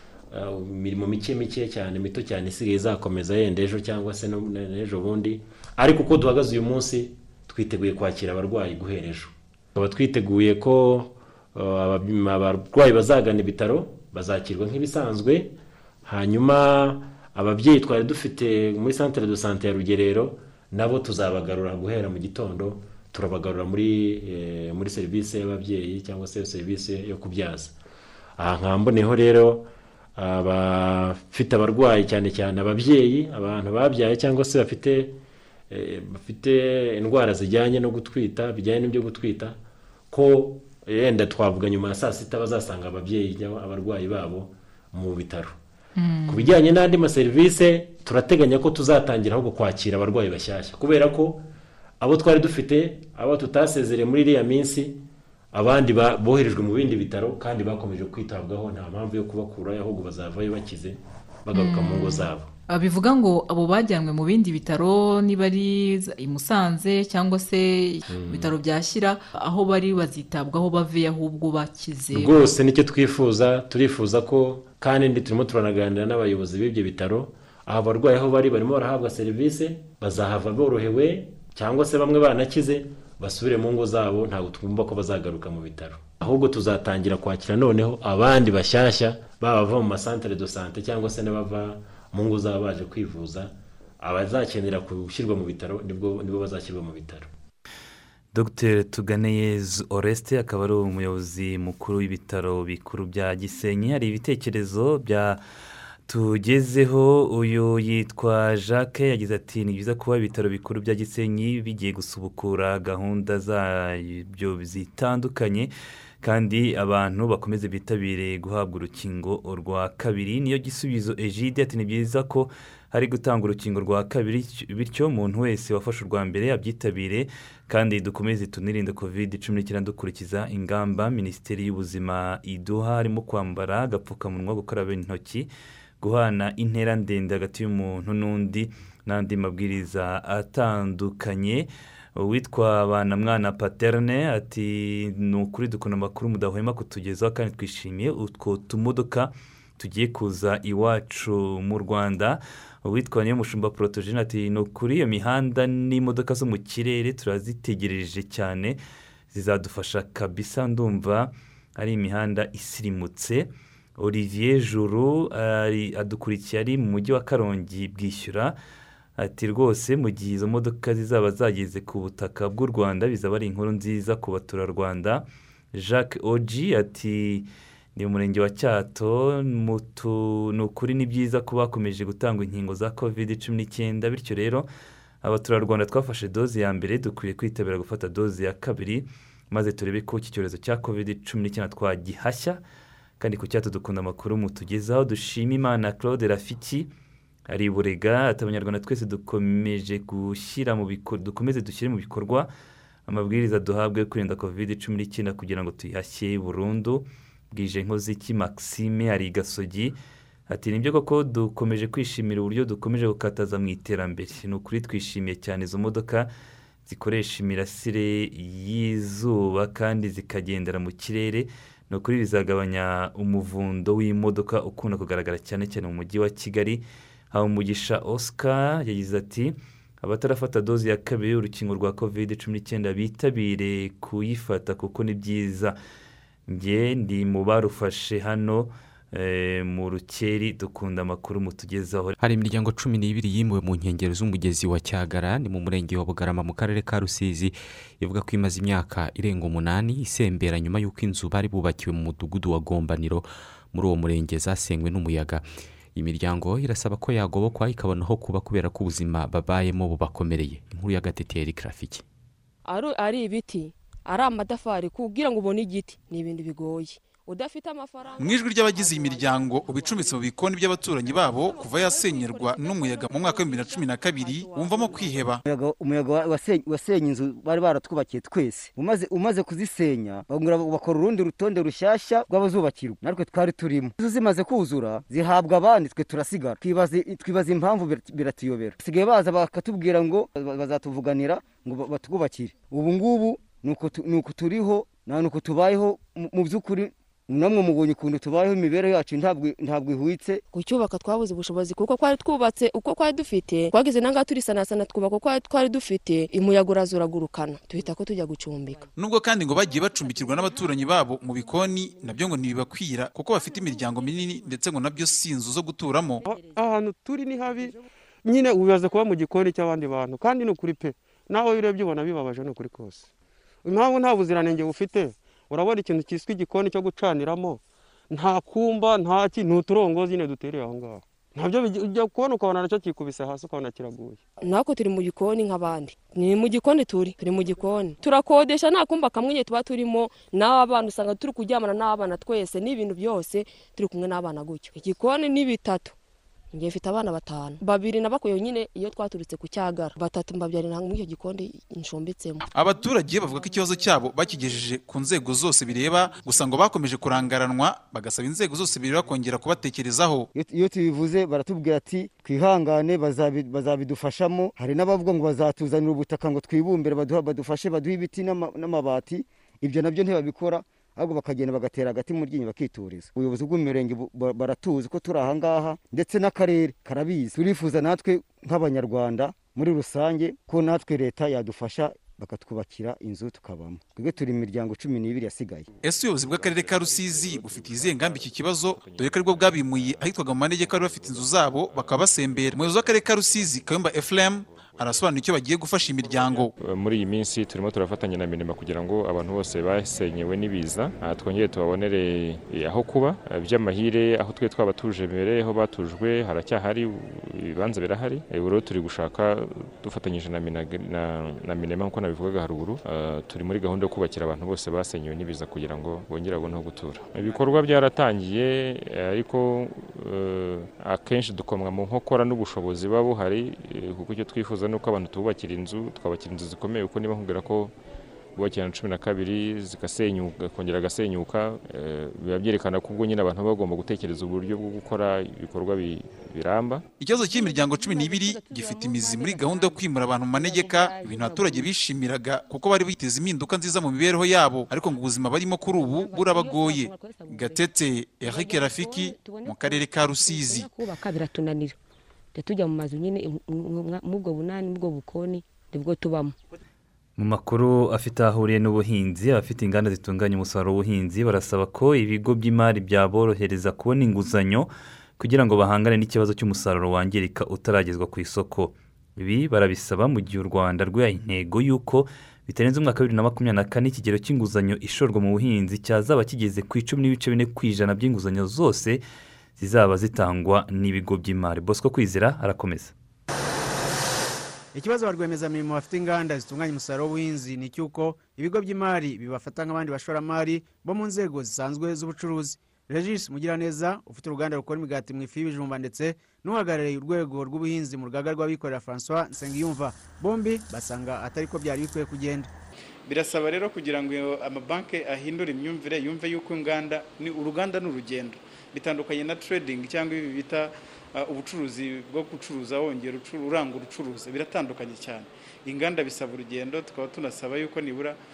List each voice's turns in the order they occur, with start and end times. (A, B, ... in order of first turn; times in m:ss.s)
0:00.3-0:27.7 A
0:28.4-0:35.2 A
0:35.7-0:39.6 A
0:40.1-0:45.6 A
0:46.0-0:46.6 B
0:46.3-0:51.4 A
0:52.0-1:02.5 A
1:01.5-1:12.6 B
1:08.1-1:08.6 A
1:12.1-1:37.3 A
1:38.3-1:45.4 C
1:46.1-1:55.7 C
1:56.2-2:15.5 C
2:16.0-2:38.8 C
2:39.3-2:48.6 C
2:49.2-3:04.7 C
3:05.2-3:12.6 C
3:13.2-3:16.9 C
3:17.5-3:22.5 C
3:23.1-3:30.0 C
3:30.5-3:36.3 C
3:36.9-3:55.8 C
3:56.5-4:02.1 C
4:02.2-4:15.4 D
4:16.0-4:22.0 D
4:22.6-4:30.2 E
4:28.2-4:35.4 F
4:31.1-4:35.1 E
4:35.4-5:00.4 G
5:00.5-5:08.9 E
5:09.0-5:16.2 F
5:16.2-5:23.1 H
5:23.6-5:34.2 H
5:34.4-5:46.0 E
5:46.5-5:52.4 E
5:52.5-6:00.3 F
6:00.4-6:25.7 G
6:25.8-6:36.5 F
6:26.0-6:35.1 I
6:35.8-7:07.7 I
7:08.4-7:16.8 I
7:17.0-7:30.7 F
7:17.2-7:21.7 J
7:25.7-7:27.7 J
7:28.2-7:31.8 J
7:32.4-7:36.4 J
7:37.2-7:59.0 C
7:59.6-8:02.9 C
8:04.7-8:22.5 K
8:23.1-8:38.2 L